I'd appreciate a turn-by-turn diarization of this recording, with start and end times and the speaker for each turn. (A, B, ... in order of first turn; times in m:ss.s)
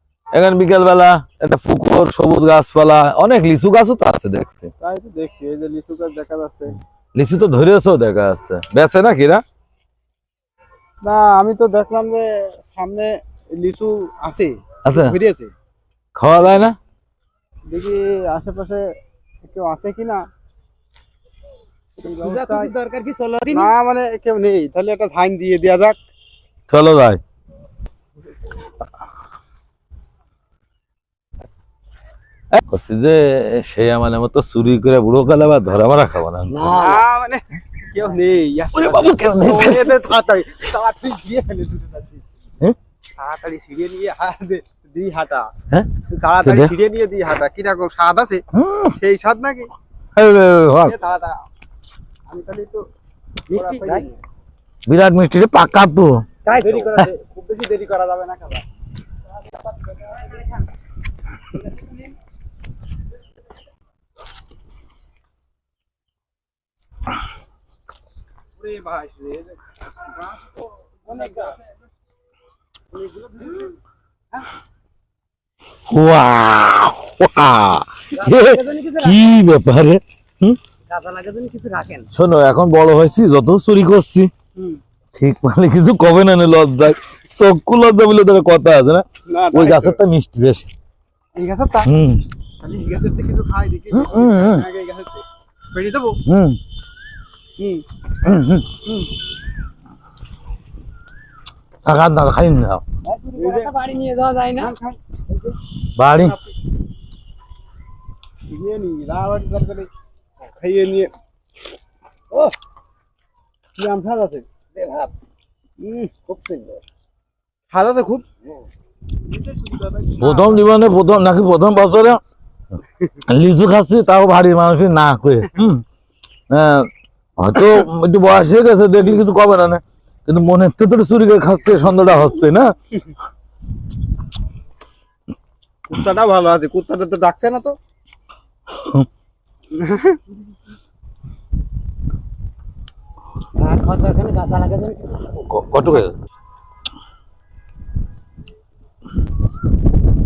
0:00.3-0:04.7 A
0:04.8-0:06.7 B
0:07.2-0:09.4 A
0:11.0-0:15.5 B
0:14.8-0:15.1 A
0:16.2-0:16.7 A
0:17.7-0:18.8 B
0:19.4-0:20.2 B
0:22.0-0:22.7 B
0:22.0-0:23.7 C
0:23.5-0:26.0 B
0:26.7-0:27.2 A
0:32.5-0:36.7 A
0:36.5-0:37.0 C
0:36.6-0:42.2 B
0:38.8-0:39.9 A
0:43.2-0:45.5 B
0:46.1-0:48.4 B
0:46.4-0:46.7 A
0:48.5-0:49.0 A
0:49.0-0:49.7 B
0:50.2-0:50.9 A
0:50.8-0:51.4 B
0:52.3-0:52.8 B
0:53.5-0:54.2 B
0:53.5-0:54.0 C
0:54.9-0:56.2 A
0:56.4-0:57.1 C
0:56.4-0:58.6 B
1:08.6-1:09.5 B
1:10.1-1:11.5 B
1:11.1-1:11.5 C
1:13.1-1:13.6 B
1:15.9-1:20.6 A
1:18.1-1:19.2 C
1:20.9-1:22.1 C
1:22.1-1:24.3 A
1:25.1-1:30.7 A
1:29.3-1:30.0 B
1:31.4-1:31.9 B
1:31.8-1:32.2 A
1:32.6-1:36.2 B
1:33.9-1:34.6 A
1:36.3-1:36.6 A
1:37.6-1:37.8 B
1:38.2-1:38.7 A
1:41.8-1:42.8 A
1:43.0-1:44.7 C
1:43.4-1:43.7 B
1:44.6-1:45.0 B
1:46.0-1:46.4 A
1:48.5-1:49.9 B
1:50.5-1:51.1 B
1:53.8-1:54.4 B
1:54.8-1:55.1 C
1:55.8-1:56.4 B
1:56.3-1:56.8 C
1:57.7-1:58.2 B
1:59.3-2:00.7 B
2:00.2-2:02.2 A
2:03.3-2:05.8 A
2:06.5-2:12.7 A
2:15.9-2:17.8 B
2:18.8-2:19.0 A
2:19.7-2:20.2 B
2:23.5-2:25.4 C
2:25.4-2:26.1 A